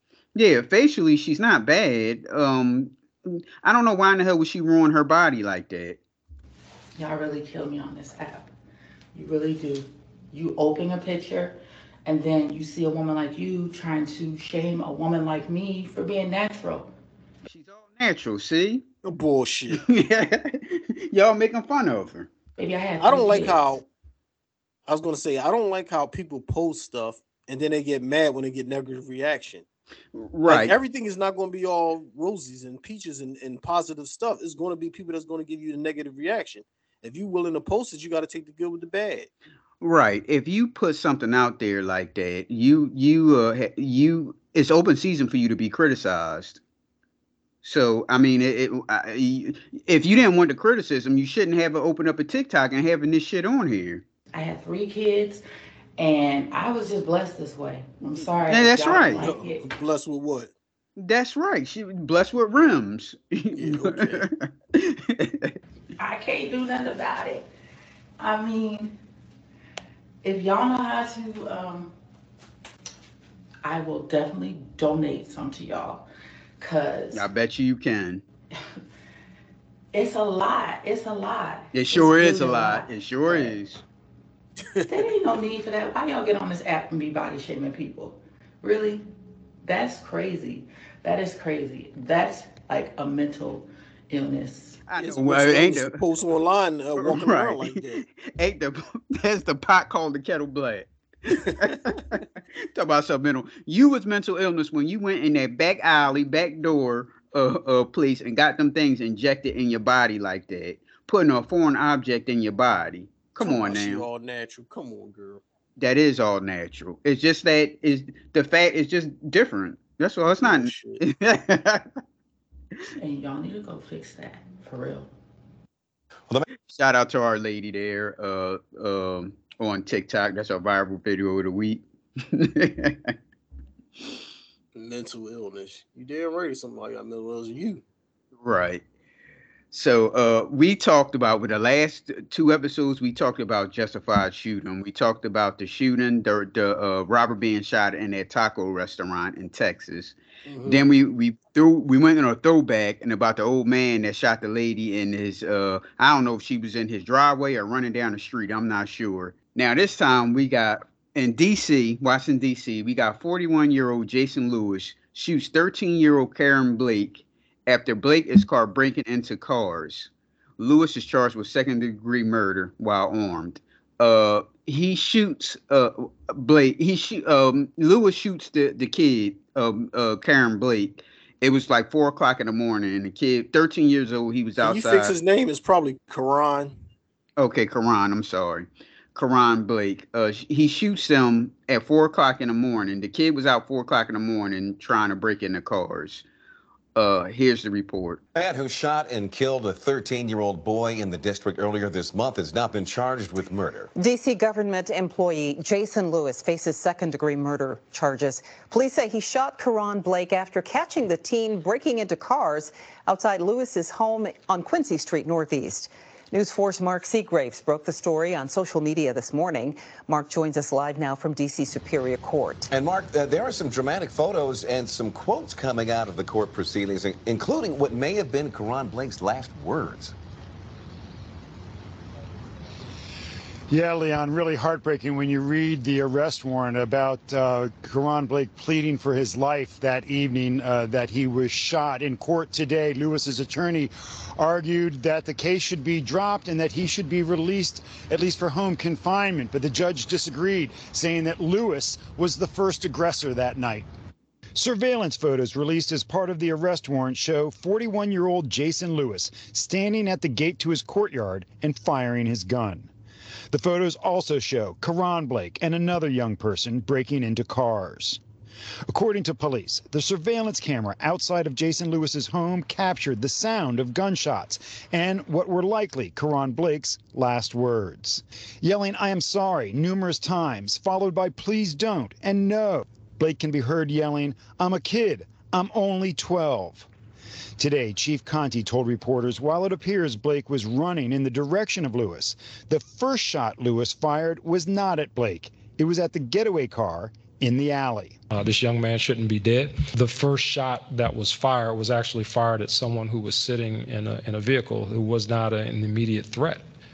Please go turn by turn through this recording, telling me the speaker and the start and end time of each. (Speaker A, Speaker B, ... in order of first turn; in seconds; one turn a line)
Speaker A: 0.3-6.0
Speaker B: 7.0-8.5
Speaker B: 9.1-16.9
Speaker A: 17.4-18.8
Speaker C: 19.1-19.8
Speaker A: 19.7-22.3
Speaker B: 22.6-23.7
Speaker C: 23.0-23.8
Speaker C: 24.9-29.6
Speaker A: 30.1-30.8
Speaker C: 30.5-39.3
Speaker A: 39.8-46.6
Speaker A: 47.6-54.0
Speaker B: 54.3-55.4
Speaker B: 56.0-59.7
Speaker A: 58.5-59.2
Speaker C: 59.2-60.5
Speaker A: 61.0-65.5
Speaker C: 63.5-64.2
Speaker B: 66.0-67.5
Speaker B: 68.2-69.0
Speaker B: 70.2-71.9
Speaker B: 73.6-76.0
Speaker B: 76.6-77.2
Speaker A: 77.1-78.2
Speaker B: 79.9-83.6
Speaker A: 81.7-83.8
Speaker C: 84.6-85.1
Speaker B: 84.9-89.1
Speaker B: 89.6-94.8
Speaker A: 94.9-96.0
Speaker C: 95.0-98.0
Speaker A: 97.0-114.1
Speaker C: 113.4-115.4
Speaker A: 115.8-121.9
Speaker C: 120.4-121.0
Speaker B: 123.0-125.1
Speaker A: 126.7-133.1
Speaker C: 134.8-137.8
Speaker A: 138.4-138.8
Speaker A: 139.7-150.2
Speaker C: 150.5-150.8
Speaker A: 150.7-185.2
Speaker C: 184.6-186.8
Speaker A: 187.4-196.2
Speaker A: 197.0-198.2
Speaker D: 198.3-203.9
Speaker E: 203.9-222.7
Speaker D: 222.7-230.1
Speaker F: 233.7-253.9
Speaker F: 254.6-262.9
Speaker F: 263.5-268.2
Speaker F: 268.9-286.9
Speaker F: 287.6-298.2
Speaker G: 298.3-306.6